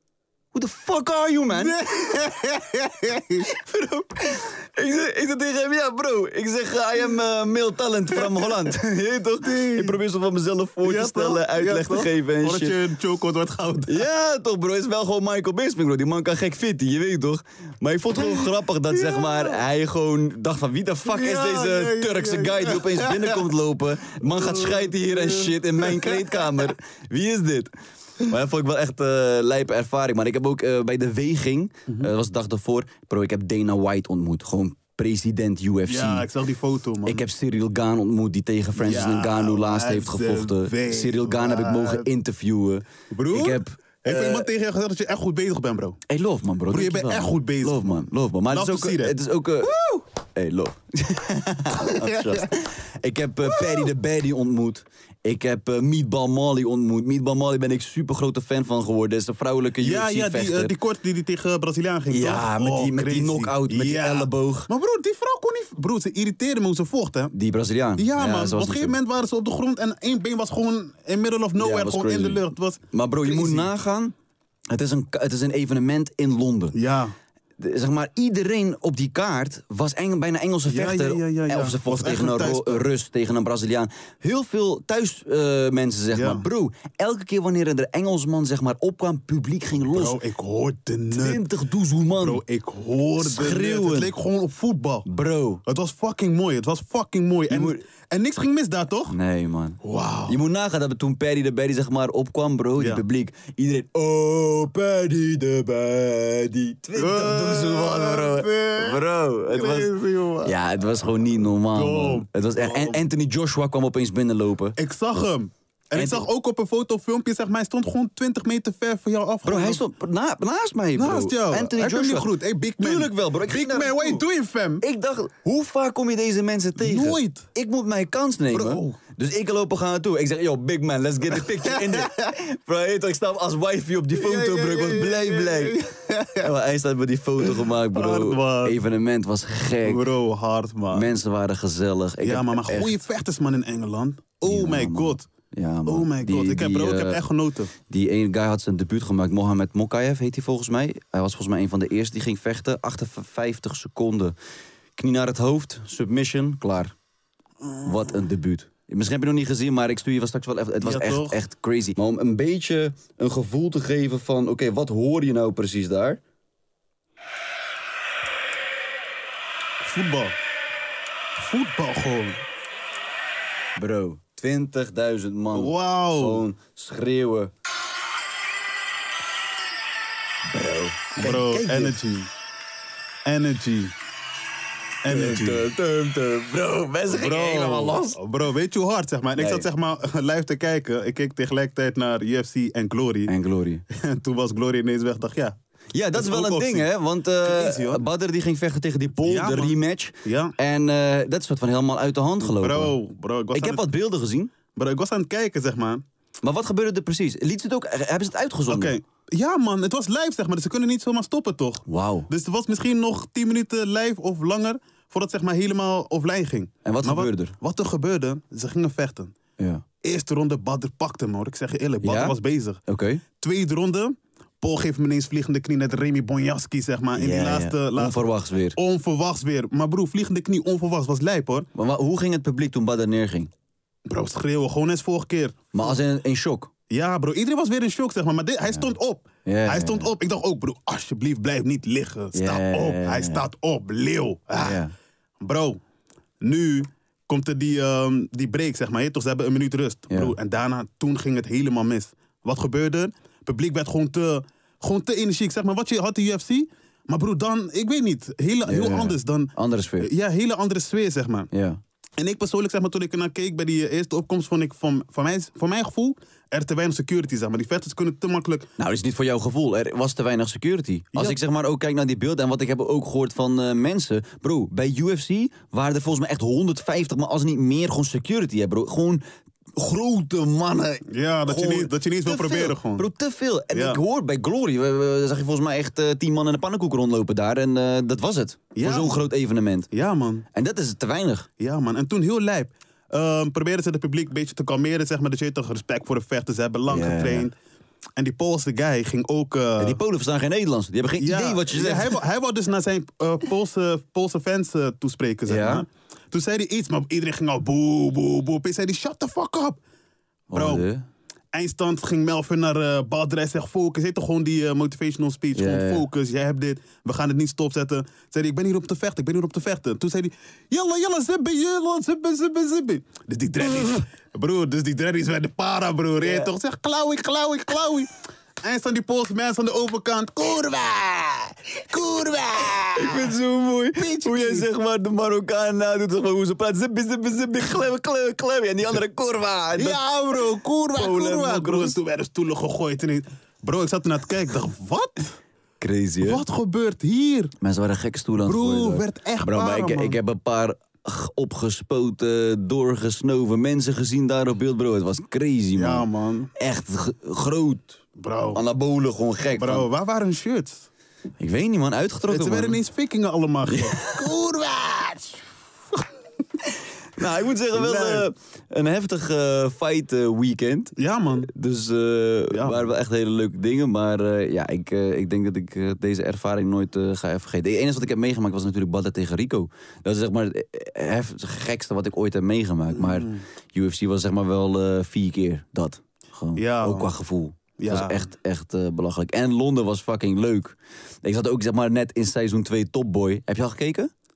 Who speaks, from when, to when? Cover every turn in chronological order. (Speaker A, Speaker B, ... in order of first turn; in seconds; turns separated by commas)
Speaker A: 0.5-1.9, Speaker B: 1.5-3.5, Speaker A: 3.5-12.8, Speaker B: 8.1-8.8, Speaker B: 9.4-10.0, Speaker B: 10.8-14.1, Speaker A: 13.9-36.3, Speaker B: 18.2-19.6, Speaker B: 21.0-23.5, Speaker B: 24.2-26.7, Speaker B: 35.9-37.3, Speaker A: 37.1-44.5, Speaker B: 38.8-42.1, Speaker B: 43.1-46.0, Speaker A: 46.1-49.8, Speaker B: 46.7-50.0, Speaker A: 50.4-60.7, Speaker B: 51.7-52.5, Speaker B: 53.5-53.9, Speaker B: 59.8-67.3, Speaker A: 62.1-64.7, Speaker A: 67.3-68.9, Speaker B: 68.0-73.7, Speaker A: 71.6-74.1, Speaker A: 74.7-76.8, Speaker B: 76.7-77.2, Speaker A: 77.6-90.2, Speaker B: 80.7-82.9, Speaker B: 86.1-86.5, Speaker B: 89.9-91.4, Speaker A: 91.1-92.4, Speaker B: 92.2-95.1, Speaker A: 93.2-94.1, Speaker A: 95.1-95.6, Speaker B: 95.7-99.2, Speaker A: 97.5-97.8, Speaker A: 99.1-109.9, Speaker B: 99.8-100.4, Speaker B: 102.8-103.0, Speaker B: 107.0-110.6, Speaker A: 110.4-114.8, Speaker B: 111.7-113.0, Speaker B: 114.8-119.8, Speaker A: 116.0-116.2, Speaker A: 119.5-124.2, Speaker B: 121.0-124.8, Speaker A: 124.8-135.8, Speaker B: 126.8-127.5, Speaker B: 128.5-129.0, Speaker B: 131.3-132.2, Speaker B: 134.1-136.5, Speaker A: 136.4-140.1, Speaker B: 137.4-138.8, Speaker B: 139.8-141.1, Speaker A: 140.9-143.0, Speaker B: 142.2-145.3, Speaker A: 144.4-147.2, Speaker B: 145.9-147.7, Speaker A: 147.9-154.3, Speaker A: 155.0-156.9, Speaker B: 157.6-158.2, Speaker A: 157.8-166.2, Speaker B: 160.8-161.4, Speaker B: 169.8-170.4, Speaker B: 171.4-172.4, Speaker A: 173.8-177.5, Speaker B: 175.5-176.4, Speaker A: 180.5-181.9, Speaker B: 181.2-182.3, Speaker B: 183.3-183.9, Speaker B: 185.0-185.7, Speaker A: 185.1-188.2, Speaker B: 187.1-193.3, Speaker A: 189.4-189.7, Speaker A: 193.3-193.8, Speaker B: 193.9-195.6, Speaker A: 195.9-202.9, Speaker B: 196.2-196.9, Speaker B: 197.4-198.1, Speaker B: 199.2-200.5, Speaker B: 202.4-203.8, Speaker A: 203.5-204.5, Speaker B: 204.7-206.1, Speaker A: 206.4-208.9, Speaker B: 208.7-219.4, Speaker A: 211.9-212.3, Speaker A: 216.8-217.5, Speaker A: 219.6-219.8, Speaker B: 220.0-222.8, Speaker A: 222.0-222.4, Speaker A: 222.9-223.2, Speaker B: 223.4-231.7, Speaker A: 227.2-228.8, Speaker A: 231.8-233.5, Speaker B: 234.1-236.0, Speaker A: 235.7-236.7, Speaker B: 236.9-244.8, Speaker A: 239.5-240.1, Speaker A: 242.3-243.5, Speaker A: 244.6-244.9, Speaker B: 245.4-245.8, Speaker B: 246.4-261.5, Speaker A: 258.6-260.1, Speaker A: 261.5-261.8, Speaker B: 262.2-268.7, Speaker A: 268.8-279.2, Speaker B: 271.1-271.4, Speaker A: 279.8-289.9, Speaker B: 281.1-283.1, Speaker B: 283.7-284.0, Speaker B: 288.8-289.2, Speaker B: 289.9-290.5, Speaker A: 290.5-291.5, Speaker B: 291.6-297.6, Speaker A: 296.9-297.5, Speaker B: 298.2-300.0, Speaker A: 299.8-302.2, Speaker B: 301.2-309.8, Speaker A: 305.5-305.9, Speaker B: 310.5-310.9, Speaker A: 310.5-311.1, Speaker B: 311.5-328.1, Speaker A: 315.5-316.1, Speaker A: 323.6-324.0, Speaker A: 326.2-326.5, Speaker B: 328.6-333.3, Speaker A: 332.9-340.0, Speaker B: 334.0-334.7, Speaker B: 339.8-345.4, Speaker A: 340.9-342.0, Speaker A: 345.8-346.4, Speaker B: 346.2-347.5, Speaker A: 347.6-356.1, Speaker B: 348.4-350.2, Speaker B: 355.8-356.5, Speaker A: 356.6-359.9, Speaker B: 358.2-358.6, Speaker B: 359.5-360.9, Speaker A: 361.4-362.8, Speaker B: 362.3-366.0, Speaker A: 363.7-364.3, Speaker A: 366.7-371.0, Speaker B: 367.7-368.3, Speaker B: 371.0-371.5, Speaker A: 371.5-394.1, Speaker B: 372.5-372.9, Speaker B: 382.9-383.4, Speaker B: 386.6-387.1, Speaker B: 387.8-388.3